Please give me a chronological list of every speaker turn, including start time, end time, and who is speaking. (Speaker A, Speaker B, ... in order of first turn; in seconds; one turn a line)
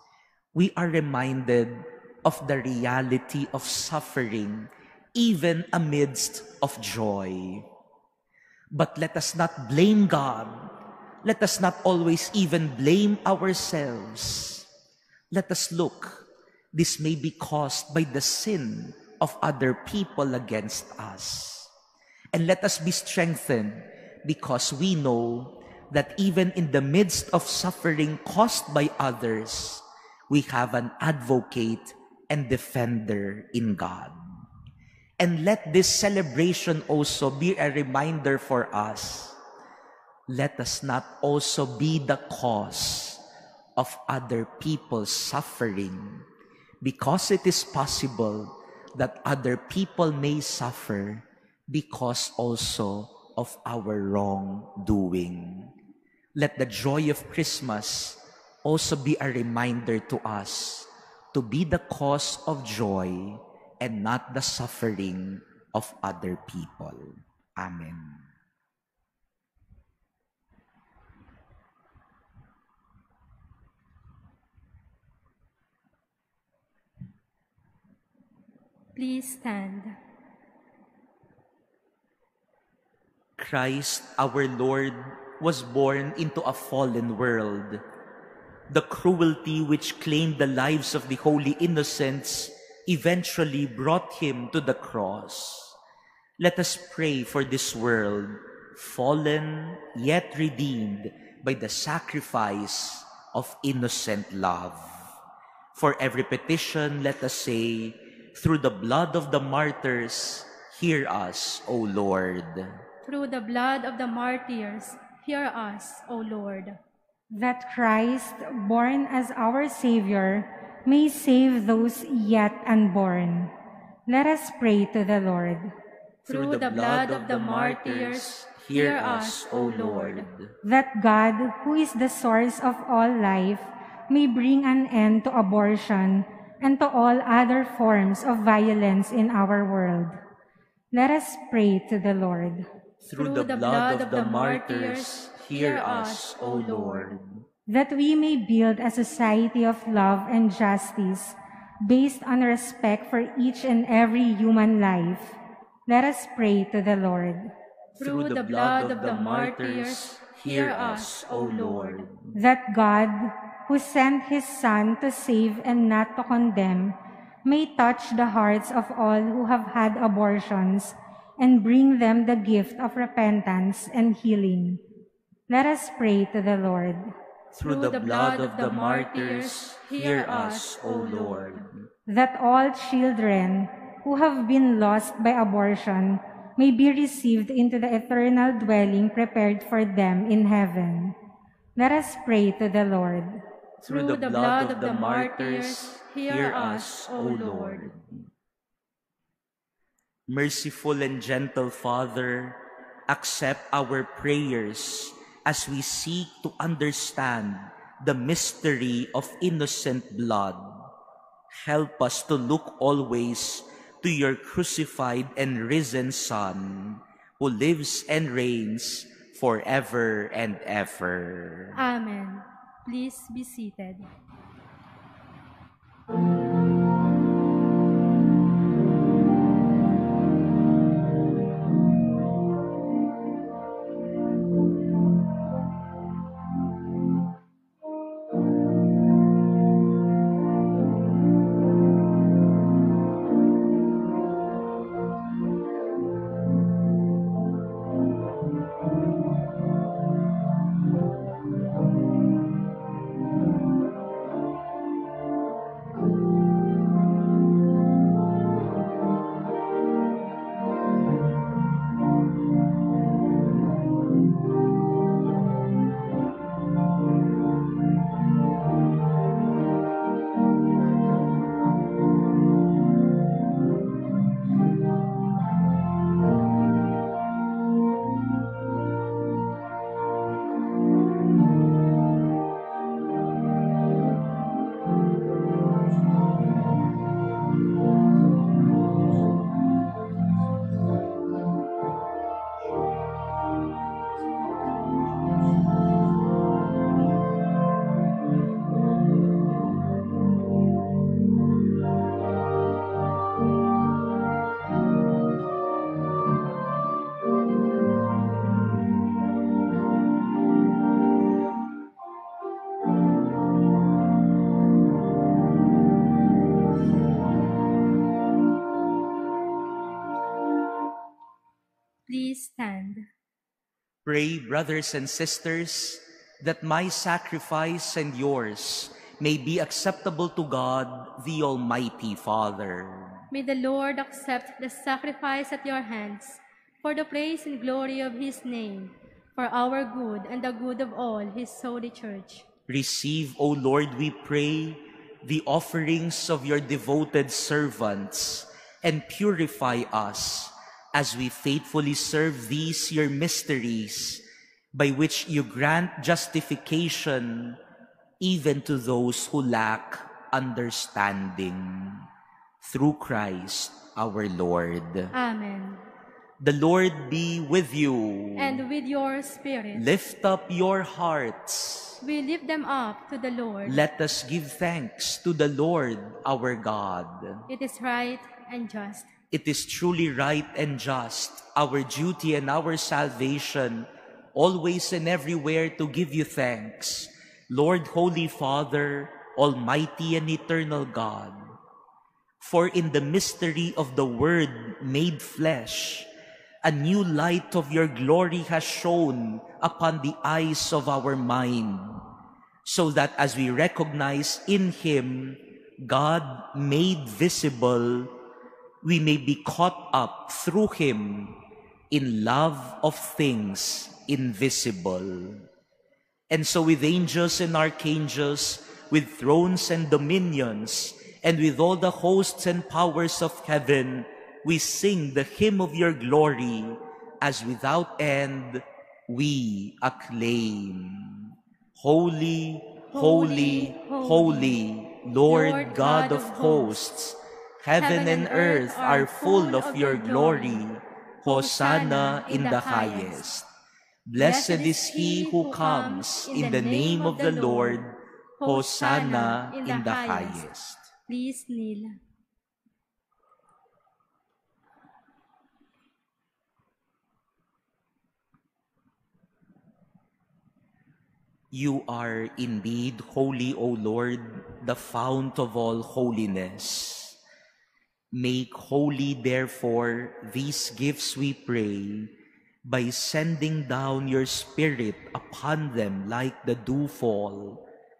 Speaker A: 0.5-7.7
Speaker A: 8.7-10.7
Speaker A: 11.2-14.7
Speaker A: 15.3-21.7
Speaker A: 22.3-34.2
Speaker A: 35.2-39.4
Speaker A: 40.3-43.2
Speaker A: 43.8-46.3
Speaker A: 46.8-55.7
Speaker A: 56.4-68.2
Speaker B: 78.9-79.9
Speaker A: 83.4-87.8
Speaker A: 88.7-95.8
Speaker A: 96.4-105.1
Speaker A: 105.7-112.8
Speaker B: 113.1-116.8
Speaker C: 117.3-123.5
Speaker C: 124.1-125.7
Speaker A: 126.2-130.5
Speaker B: 126.3-130.2
Speaker C: 130.6-140.2
Speaker C: 140.9-142.7
Speaker A: 143.1-147.4
Speaker B: 143.2-147.2
Speaker C: 147.7-157.5
Speaker A: 157.9-162.3
Speaker B: 158.0-162.0
Speaker C: 162.3-174.8
Speaker C: 175.5-177.1
Speaker B: 177.6-181.7
Speaker A: 177.6-181.9
Speaker C: 182.1-191.2
Speaker C: 191.8-193.4
Speaker A: 193.8-198.3
Speaker B: 193.8-197.9
Speaker A: 200.3-210.9
Speaker A: 211.5-221.8
Speaker B: 221.7-224.1
Speaker B: 322.1-323.1
Speaker A: 324.1-333.2
Speaker B: 333.3-342.4
Speaker A: 342.7-357.6
Speaker A: 358.2-362.1
Speaker A: 362.6-365.1
Speaker B: 365.1-365.8
Speaker A: 366.4-368.6
Speaker B: 368.4-369.9
Speaker A: 369.7-372.0
Speaker B: 372.0-373.8
Speaker A: 373.6-377.4
Speaker B: 377.5-379.1
Speaker A: 379.3-391.4
Speaker A: 392.4-396.1
Speaker A: 396.6-402.1
Speaker A: 402.6-408.1
Speaker A: 408.8-415.4
Speaker A: 416.3-443.5
Speaker B: 432.9-434.6
Speaker B: 435.3-436.8
Speaker B: 437.8-440.6
Speaker B: 441.2-443.2
Speaker A: 444.1-450.9
Speaker B: 444.2-447.8
Speaker B: 448.4-450.4
Speaker B: 451.1-452.0
Speaker A: 461.5-467.2
Speaker A: 468.1-472.1
Speaker A: 472.6-477.6